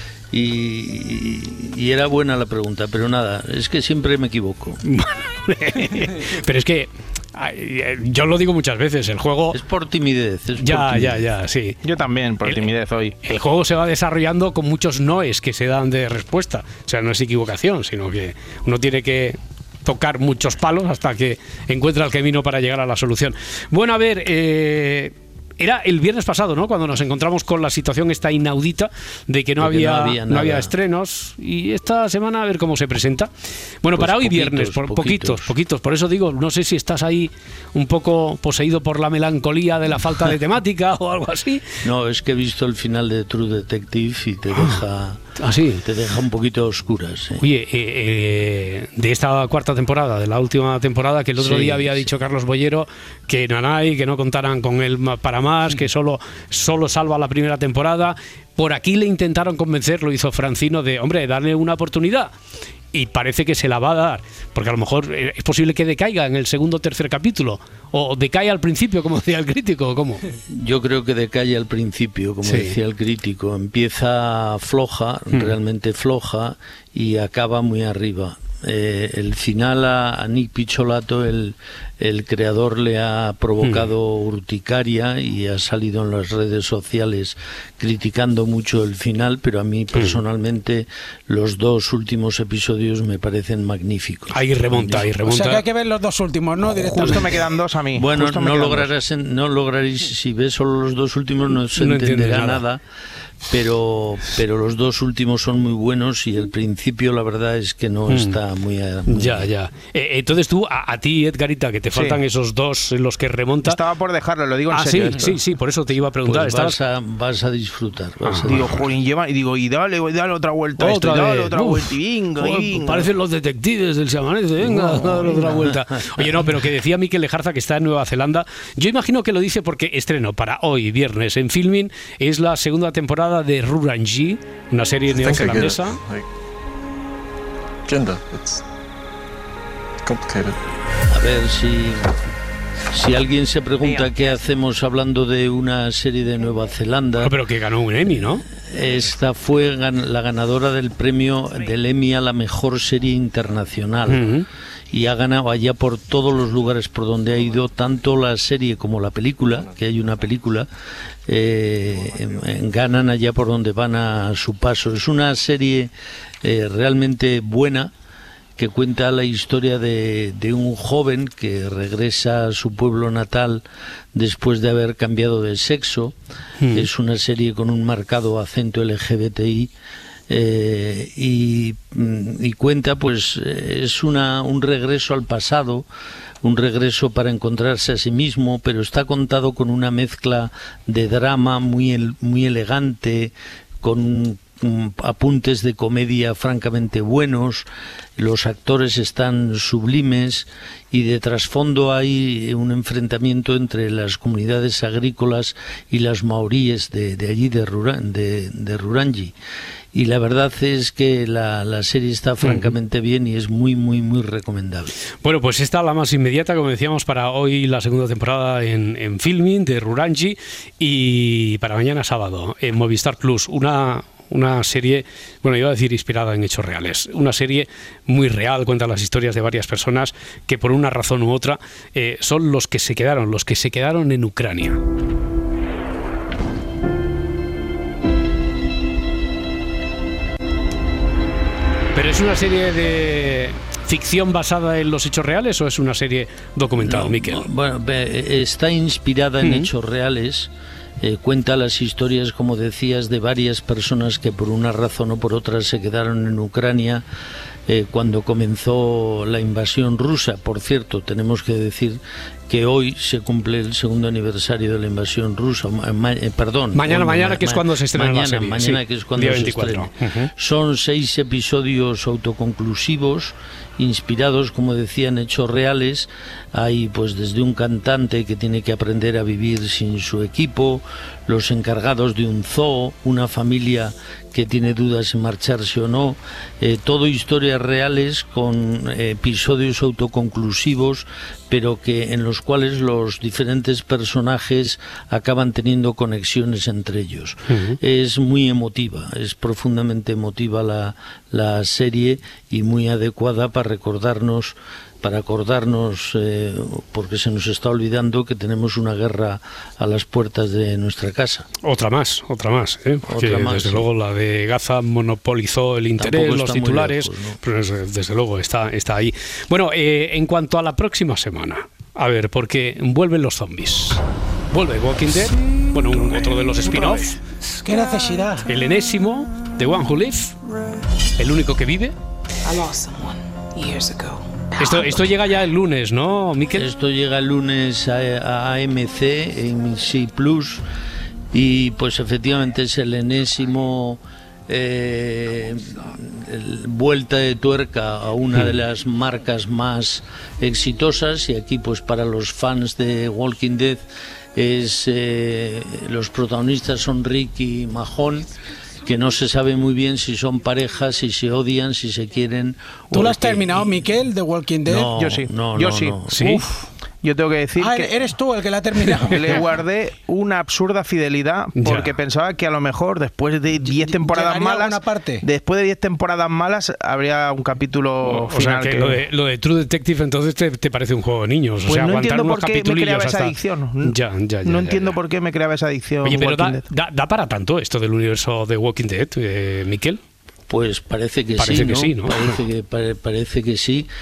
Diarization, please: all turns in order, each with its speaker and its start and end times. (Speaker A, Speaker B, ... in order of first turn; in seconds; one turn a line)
Speaker A: 0.3-4.8
Speaker B: 4.8-9.6
Speaker A: 9.5-11.3
Speaker B: 10.6-11.8
Speaker C: 11.8-13.2
Speaker B: 13.2-33.3
Speaker A: 29.6-30.7
Speaker B: 33.8-41.6
Speaker A: 34.0-35.5
Speaker A: 41.8-45.2
Speaker B: 44.5-44.8
Speaker B: 45.4-45.9
Speaker A: 45.8-47.4
Speaker B: 47.4-62.3
Speaker A: 51.4-52.1
Speaker B: 62.9-70.2
Speaker A: 70.5-95.1
Speaker B: 72.5-72.8
Speaker B: 83.6-83.9
Speaker B: 90.0-90.2
Speaker B: 94.3-95.6
Speaker D: 95.2-97.3
Speaker C: 96.7-98.9
Speaker A: 97.9-102.8
Speaker B: 101.8-102.6
Speaker A: 103.5-109.5
Speaker B: 108.1-108.4
Speaker B: 109.1-113.8
Speaker C: 111.9-112.2
Speaker C: 113.7-115.4
Speaker B: 114.7-116.8
Speaker A: 116.3-118.9
Speaker B: 118.2-118.8
Speaker C: 118.5-123.1
Speaker B: 120.8-136.0
Speaker A: 124.6-126.6
Speaker E: 135.1-136.3
Speaker E: 137.9-138.6
Speaker E: 140.1-140.6
Speaker A: 141.1-142.1
Speaker A: 142.9-147.4
Speaker B: 147.2-148.4
Speaker A: 148.5-154.3
Speaker B: 154.1-154.5
Speaker A: 154.9-160.7
Speaker A: 161.3-165.9
Speaker A: 166.4-167.9
Speaker A: 168.6-173.6
Speaker A: 174.1-176.2
Speaker B: 176.6-176.9
Speaker A: 176.7-179.7
Speaker A: 180.3-185.9
Speaker A: 186.4-197.7
Speaker A: 198.2-209.3
Speaker A: 209.9-214.9
Speaker B: 212.4-212.7
Speaker B: 215.2-234.8
Speaker B: 241.9-247.4
Speaker A: 246.8-257.1
Speaker B: 249.4-249.7
Speaker A: 257.7-311.5
Speaker B: 266.8-270.3
Speaker B: 297.5-297.8
Speaker B: 311.6-327.2
Speaker A: 313.1-313.9
Speaker A: 316.0-317.4
Speaker D: 327.5-328.5
Speaker B: 328.5-330.4
Speaker B: 331.2-331.9
Speaker F: 332.4-335.1
Speaker B: 334.6-336.7
Speaker A: 336.6-340.6
Speaker A: 341.3-353.8
Speaker A: 354.4-358.3
Speaker A: 358.8-363.4
Speaker D: 362.9-364.9
Speaker B: 362.9-363.4
Speaker A: 364.7-366.5
Speaker C: 364.9-366.0
Speaker B: 366.1-366.5
Speaker C: 367.0-367.9
Speaker D: 367.6-369.3
Speaker C: 369.0-379.0
Speaker B: 371.6-372.0
Speaker D: 373.7-375.2
Speaker B: 378.1-385.0
Speaker C: 381.7-386.7
Speaker B: 386.0-390.0
Speaker A: 390.5-393.9
Speaker B: 391.4-392.4